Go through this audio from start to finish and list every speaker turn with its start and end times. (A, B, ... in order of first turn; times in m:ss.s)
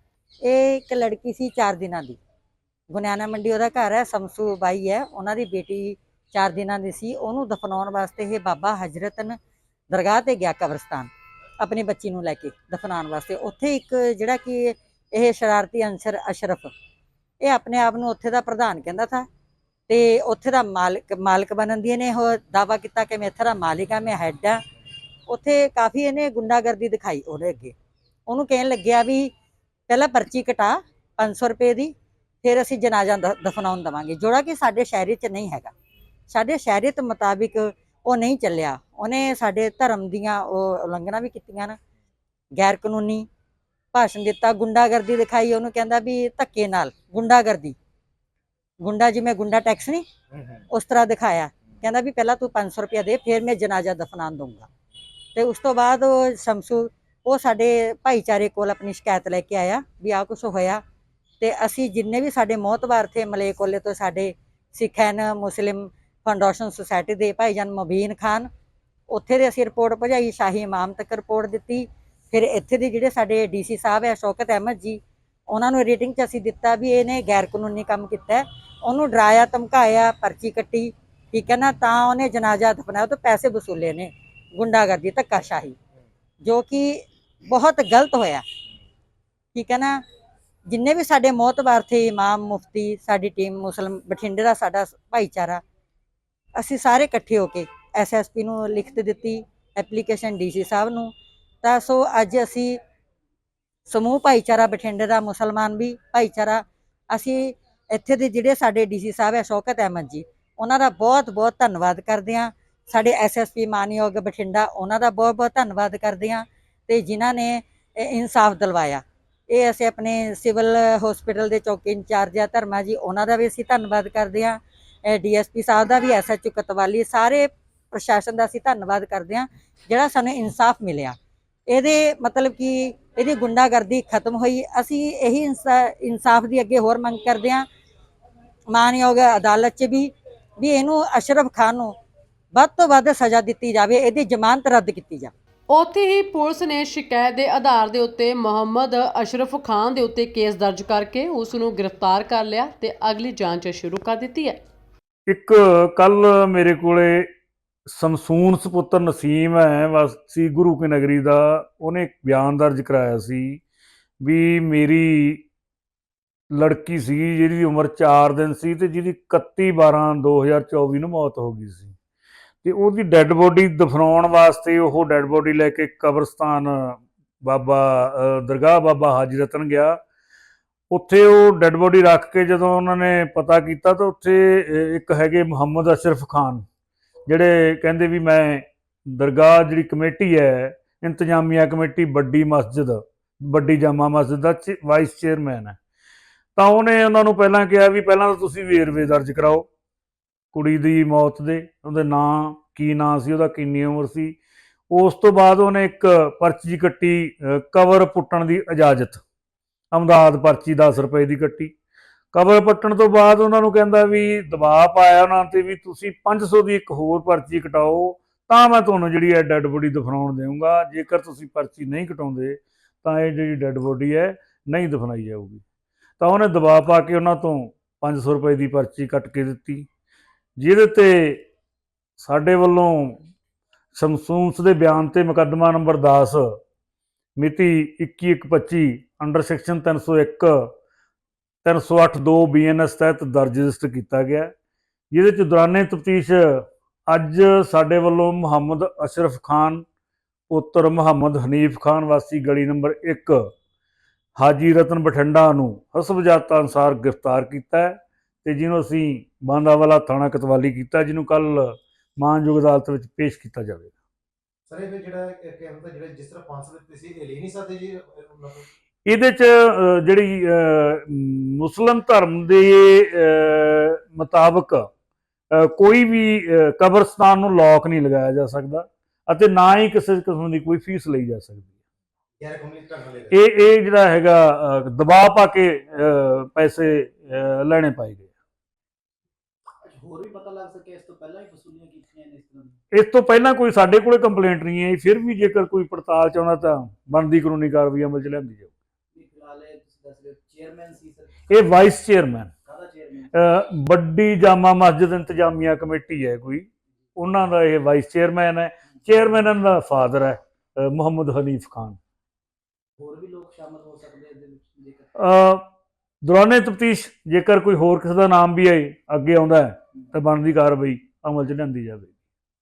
0:00.4-0:02.2 A
0:02.9-0:09.4 A
0:09.9-0:11.1 A
0:11.6-0:16.7 A
0:17.4-0:19.2 A
0:19.9-0:24.6 A
0:25.3-0:27.7 A
0:28.3-0:29.3 A
0:29.9-0:31.9 A
0:32.4-0:35.7 A
0:36.3-0:41.8 A
0:42.6-0:43.2 A
0:43.9-0:47.7 A
0:48.8-0:50.0 A
0:50.7-0:54.7 A
0:55.4-1:00.8 A
1:01.4-1:08.5 A
1:09.1-1:15.0 A
1:15.5-1:25.8 A
1:26.4-1:27.0 A
1:27.5-1:28.4 A
1:29.5-1:30.0 A
1:30.7-1:35.6 A
1:36.6-1:41.1 A
1:41.6-1:42.8 A
1:43.9-2:11.1 A
2:11.7-2:17.6 A
2:18.7-2:20.1 A
2:20.6-2:21.9 A
2:22.6-2:25.3 A
2:25.7-2:34.6 B
2:35.3-2:37.3 C
2:37.9-2:43.6 C
2:44.2-2:45.4 C
2:46.5-2:51.9 C
2:52.6-3:00.0 C
3:00.9-3:06.6 C
3:07.3-3:15.8 C
3:16.6-3:19.7 C
3:20.5-3:24.4 C
3:24.9-3:29.2 C
3:29.9-3:31.7 C
3:32.3-3:45.6 C
3:46.2-3:49.9 C
3:50.6-3:51.4 C
3:52.2-3:53.2 C
3:53.9-3:56.4 C
3:57.4-4:00.6 C
4:01.6-4:04.5 C
4:05.1-4:09.8 C
4:10.5-4:13.4 C
4:14.4-4:23.9 C
4:24.7-4:28.6 D
4:29.0-4:34.8 C
4:35.5-4:41.7 C
4:42.4-4:43.3 D
4:43.3-4:48.3 C
4:49.8-4:52.8 E
4:52.9-4:58.7 C
4:59.1-5:01.7 E
5:01.5-5:02.5 C
5:02.6-5:03.4 E
5:03.3-5:12.0 C
5:13.0-5:15.1 E
5:15.2-5:15.6 C
5:16.2-5:22.1 C